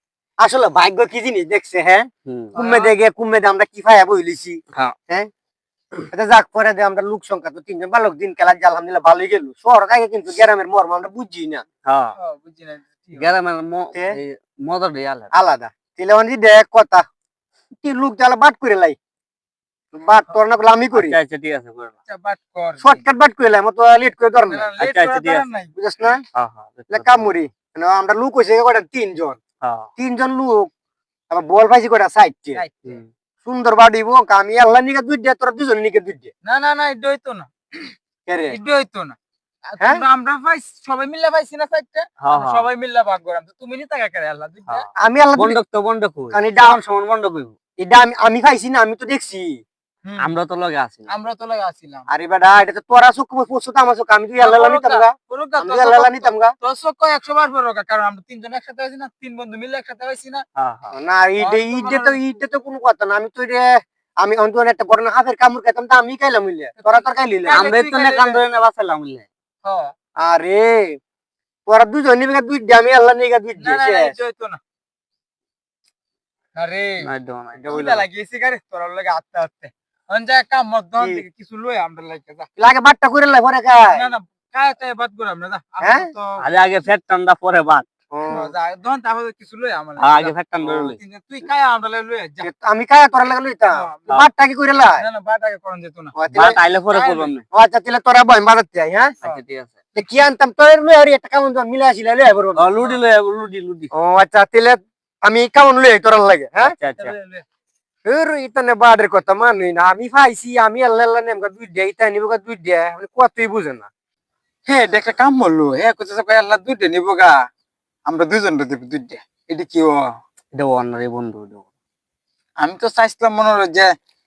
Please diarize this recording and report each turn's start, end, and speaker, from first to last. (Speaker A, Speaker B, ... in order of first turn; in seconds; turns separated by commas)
Speaker A: 0.4-5.3, Speaker B: 2.3-2.5, Speaker C: 2.5-2.9, Speaker A: 6.1-11.6, Speaker B: 11.8-12.2, Speaker C: 12.2-13.3, Speaker B: 13.1-15.3, Speaker A: 15.3-17.0, Speaker A: 17.8-19.0, Speaker A: 19.9-21.2, Speaker B: 20.9-21.9, Speaker C: 22.1-23.0, Speaker A: 22.8-24.7, Speaker C: 24.5-25.7, Speaker B: 24.8-25.4, Speaker A: 25.8-26.2, Speaker B: 26.3-27.3, Speaker A: 26.9-29.4, Speaker B: 29.6-29.9, Speaker A: 30.0-30.7, Speaker A: 31.3-32.6, Speaker C: 32.5-33.0, Speaker A: 33.4-36.3, Speaker C: 36.4-37.9, Speaker A: 38.2-38.6, Speaker C: 38.5-39.2, Speaker C: 39.7-44.9, Speaker B: 42.2-42.7, Speaker B: 44.7-47.5, Speaker A: 45.0-45.6, Speaker A: 46.3-46.8, Speaker A: 47.8-49.6, Speaker B: 50.2-51.1, Speaker C: 51.1-52.0, Speaker A: 52.1-56.5, Speaker C: 54.4-60.4, Speaker B: 60.5-60.9, Speaker A: 60.9-67.7, Speaker C: 61.4-62.2, Speaker C: 66.8-68.4, Speaker B: 67.5-69.3, Speaker C: 69.6-69.9, Speaker A: 70.2-71.0, Speaker A: 71.7-74.1, Speaker C: 73.6-74.6, Speaker C: 76.5-77.1, Speaker B: 77.0-78.0, Speaker C: 77.6-82.5, Speaker A: 82.6-84.0, Speaker C: 83.9-86.4, Speaker A: 85.8-86.1, Speaker B: 86.4-87.9, Speaker A: 88.1-88.5, Speaker C: 88.3-92.5, Speaker B: 90.0-91.0, Speaker A: 92.4-95.0, Speaker C: 93.7-96.1, Speaker A: 96.1-96.6, Speaker B: 96.3-97.4, Speaker C: 96.9-97.3, Speaker A: 97.5-99.2, Speaker B: 99.2-99.7, Speaker A: 99.9-102.6, Speaker B: 102.5-103.9, Speaker A: 103.9-106.8, Speaker B: 106.6-107.2, Speaker C: 107.0-107.4, Speaker A: 108.0-113.9, Speaker C: 114.7-117.4, Speaker C: 118.0-120.1, Speaker B: 120.5-121.6, Speaker C: 122.6-123.9